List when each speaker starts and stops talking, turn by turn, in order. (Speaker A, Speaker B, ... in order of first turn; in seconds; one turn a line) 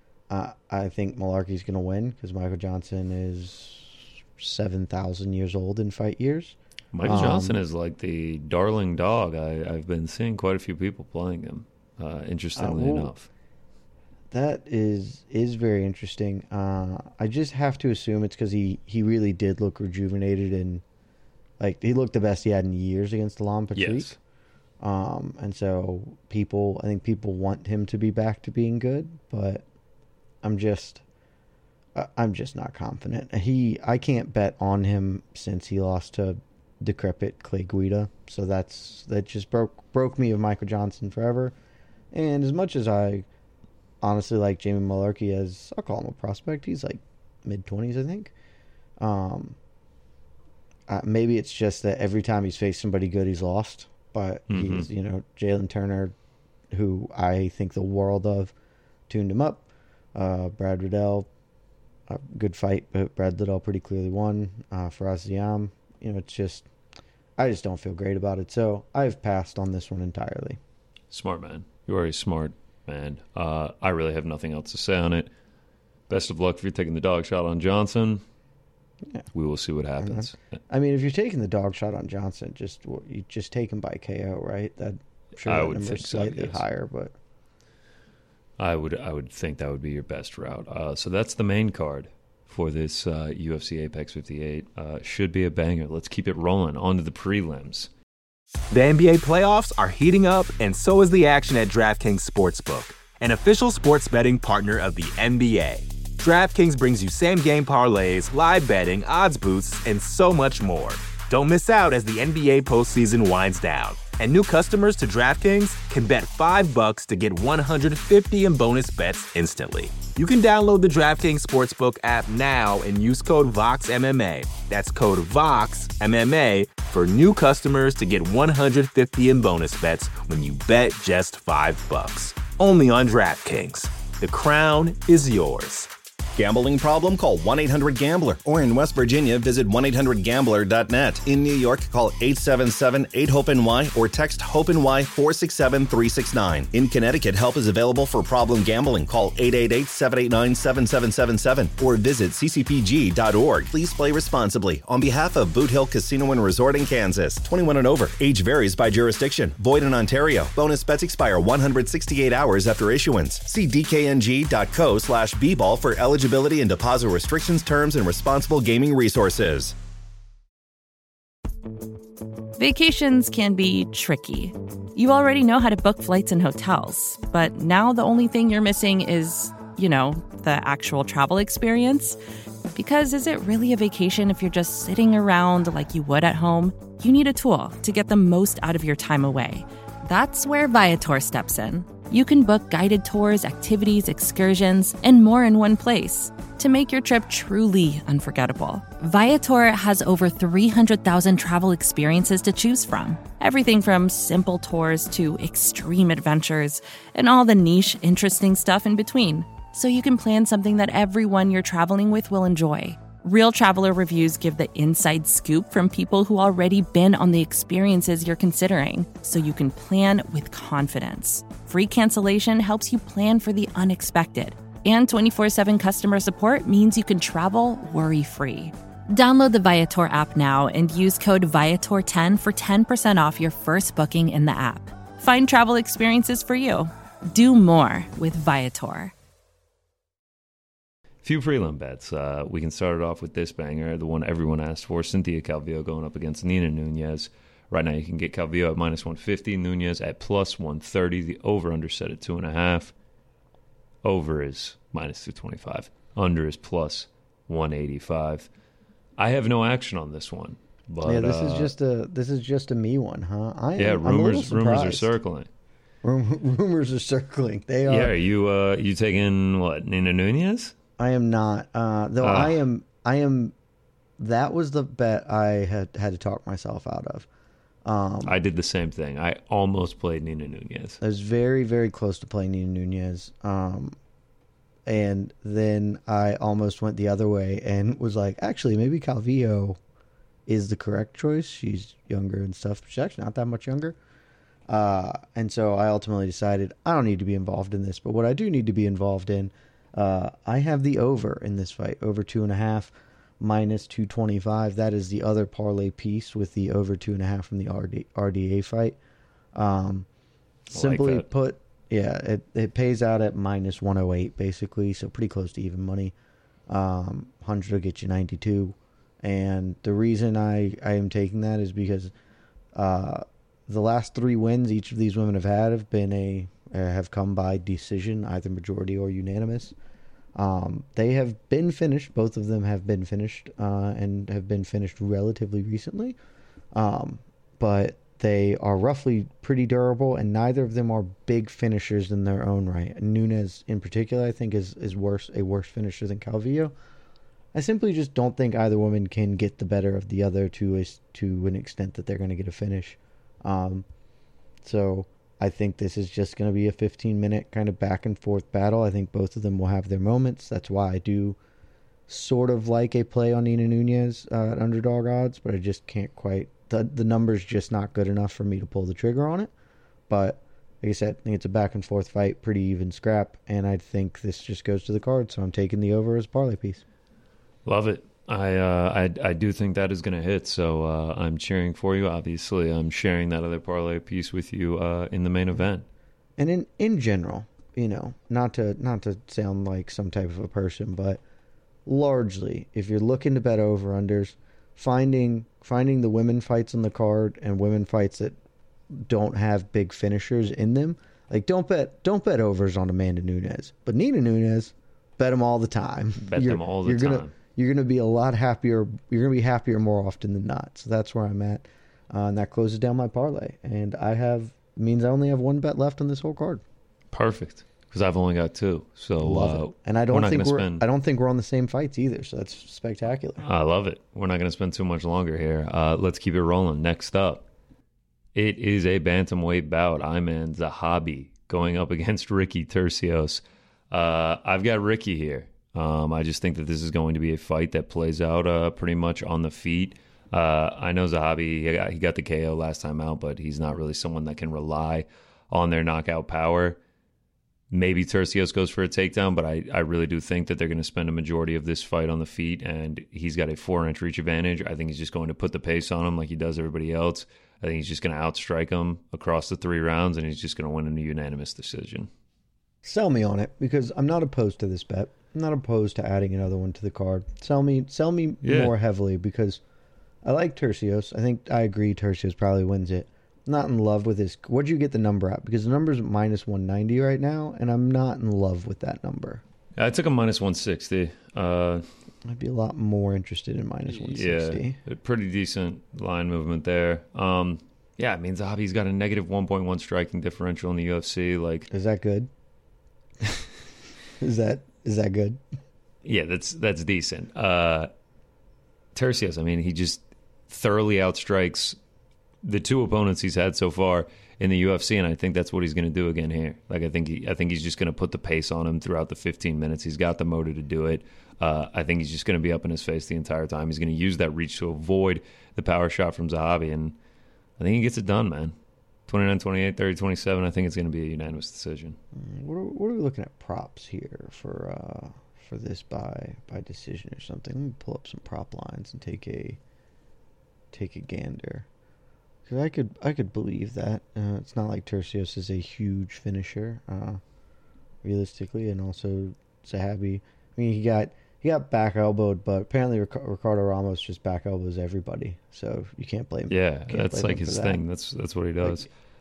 Speaker A: 0.3-7.6
Speaker B: 6.9-13.3
Speaker A: 12.6-13.1
Speaker A: 14.3-20.8
Speaker A: 21.6-24.1
Speaker B: 23.7-24.2
Speaker A: 24.8-29.6
Speaker A: 30.4-31.0
Speaker A: 31.9-41.5
Speaker A: 42.1-43.3
Speaker A: 44.0-48.3
Speaker A: 49.0-49.6
Speaker A: 50.9-56.1
Speaker B: 54.5-54.9
Speaker A: 56.7-58.5
Speaker A: 59.1-61.3
Speaker A: 62.1-66.7
Speaker A: 67.4-70.6
Speaker B: 71.1-75.3
Speaker B: 76.1-78.2
Speaker B: 79.3-80.4
Speaker A: 80.0-87.1
Speaker B: 85.4-86.6
Speaker B: 88.6-97.9
Speaker C: 98.7-135.9
Speaker D: 136.3-169.7
Speaker E: 172.6-182.2
Speaker E: 182.7-239.1
Speaker B: 241.2-252.9
Speaker B: 254.0-258.5
Speaker B: 259.2-261.7
Speaker A: 261.0-265.1
Speaker B: 263.8-265.5
Speaker A: 266.0-268.1
Speaker B: 267.9-270.7
Speaker A: 271.0-273.5
Speaker B: 272.2-272.6
Speaker A: 274.2-277.3
Speaker A: 277.8-278.4
Speaker B: 278.2-281.0
Speaker A: 281.0-283.9
Speaker A: 284.9-289.8
Speaker A: 290.5-294.0
Speaker A: 294.7-309.0
Speaker A: 309.5-310.1
Speaker A: 310.7-316.1
Speaker B: 310.7-311.2
Speaker A: 316.7-322.1
Speaker A: 322.7-329.7
Speaker A: 330.3-336.2
Speaker A: 336.7-346.7
Speaker A: 347.5-353.9
Speaker A: 354.6-361.4
Speaker A: 362.1-369.5
Speaker A: 370.1-376.8
Speaker B: 377.6-385.8
Speaker A: 386.4-391.2
Speaker A: 391.9-398.4
Speaker A: 398.9-416.6
Speaker B: 406.2-407.3
Speaker B: 417.1-420.8
Speaker A: 419.2-423.4
Speaker B: 423.4-427.4
Speaker B: 428.3-446.8
Speaker B: 447.7-462.1
Speaker A: 462.8-469.6
Speaker B: 468.4-468.7
Speaker A: 470.2-479.4
Speaker B: 479.8-481.8
Speaker A: 482.2-484.8
Speaker B: 483.9-491.7
Speaker A: 491.7-492.3
Speaker A: 494.2-495.4
Speaker B: 496.0-497.9
Speaker B: 498.9-501.8
Speaker B: 502.4-517.0
Speaker B: 517.6-518.5
Speaker B: 519.1-522.0
Speaker A: 522.1-529.6
Speaker A: 530.7-531.7
Speaker A: 532.5-537.2
Speaker A: 538.0-547.8
Speaker B: 546.5-548.9
Speaker A: 548.6-548.9